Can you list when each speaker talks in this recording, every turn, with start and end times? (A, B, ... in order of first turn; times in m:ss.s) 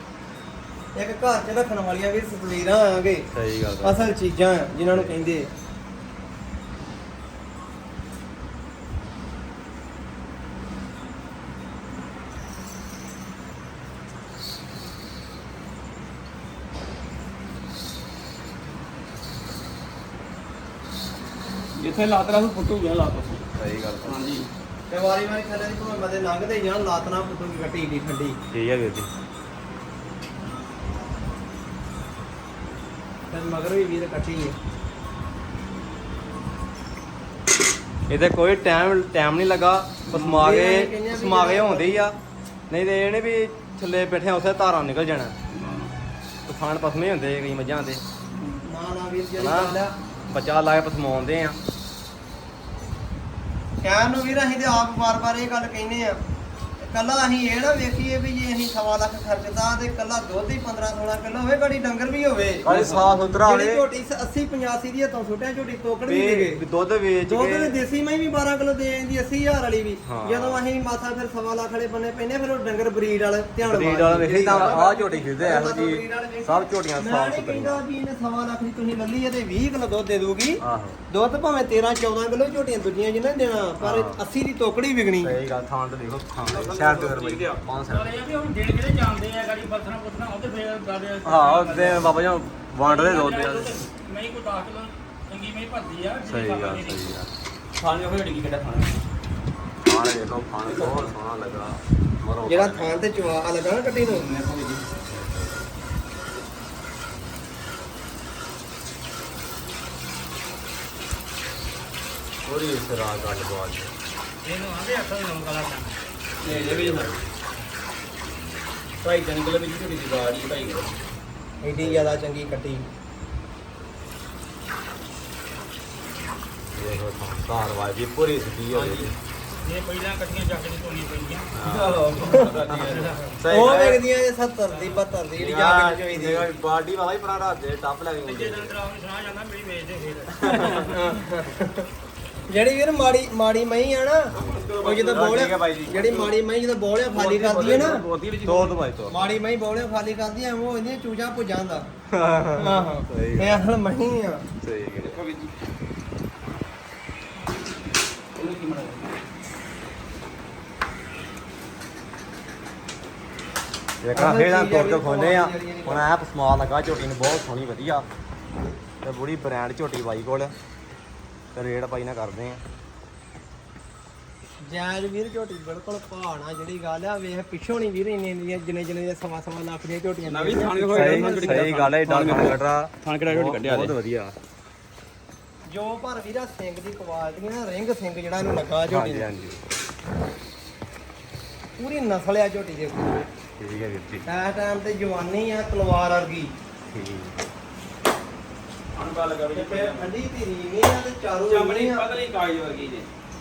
0:01.0-0:03.2 A
0:03.3-0:04.1 B
0:03.8-0:05.5 A
0:21.8-0:23.5 C
0:23.6-0:24.3 B
0:24.0-0:24.5 C
0:24.9-0:28.4 A
0:28.5-0:29.1 B
0:33.3-0:34.6 A
0:38.1-0:42.2 B
0:40.1-0:40.4 C
0:40.3-0:41.9 A
0:42.7-0:45.3 B
0:45.5-0:45.9 C
0:46.4-0:48.0 B
0:48.6-0:49.9 A
0:49.4-0:49.7 B
0:50.3-0:51.6 B
0:53.8-0:56.2 A
0:56.8-1:02.7 A
1:02.6-1:03.0 C
1:02.6-1:03.8 B
1:03.4-1:06.6 A
1:06.1-1:07.8 B
1:07.3-1:25.4 A
1:10.0-1:10.6 B
1:13.6-1:17.8 B
1:14.2-1:14.8 C
1:20.6-1:21.0 B
1:23.8-1:24.2 B
1:25.2-1:28.1 B
1:26.4-1:27.6 C
1:27.9-1:32.1 D
1:31.2-1:33.8 B
1:32.8-1:37.1 D
1:36.2-1:37.3 B
1:37.8-1:39.0 C
1:39.8-1:43.0 B
1:40.6-1:41.1 C
1:42.4-1:44.3 A
1:44.0-1:44.8 C
1:45.1-1:45.6 B
1:52.4-1:53.9 B
1:54.4-1:56.0 D
1:56.4-1:57.2 C
1:56.4-1:57.2 B
1:59.0-2:00.9 C
2:01.6-2:02.8 A
2:01.8-2:02.2 B
2:06.7-2:09.2 B
2:08.7-2:09.1 C
2:09.6-2:11.5 D
2:11.5-2:14.0 B
2:11.6-2:13.2 C
2:12.9-2:13.2 D
2:13.5-2:16.4 A
2:15.4-2:18.8 B
2:18.2-2:21.0 D
2:20.3-2:21.0 B
2:20.8-2:21.8 A
2:22.5-2:28.0 A
2:24.3-2:26.2 B
2:24.3-2:26.3 C
2:27.0-2:28.8 C
2:28.4-2:29.2 B
2:29.1-2:31.9 A
2:32.1-2:33.6 B
2:32.6-2:34.4 A
2:34.6-2:35.2 B
2:35.0-2:35.5 C
2:38.3-2:39.1 C
2:44.0-2:48.0 B
2:44.1-2:46.0 A
2:49.0-2:50.5 B
2:51.5-2:52.6 B
2:54.6-3:01.7 A
3:00.3-3:03.9 C
3:00.9-3:04.3 B
3:05.7-3:09.2 A
3:08.9-3:09.6 B
3:11.8-3:13.3 A
3:13.6-3:14.2 B
3:14.3-3:16.5 A
3:16.9-3:17.3 B
3:18.9-3:20.1 C
3:19.5-3:22.0 A
3:21.5-3:23.1 C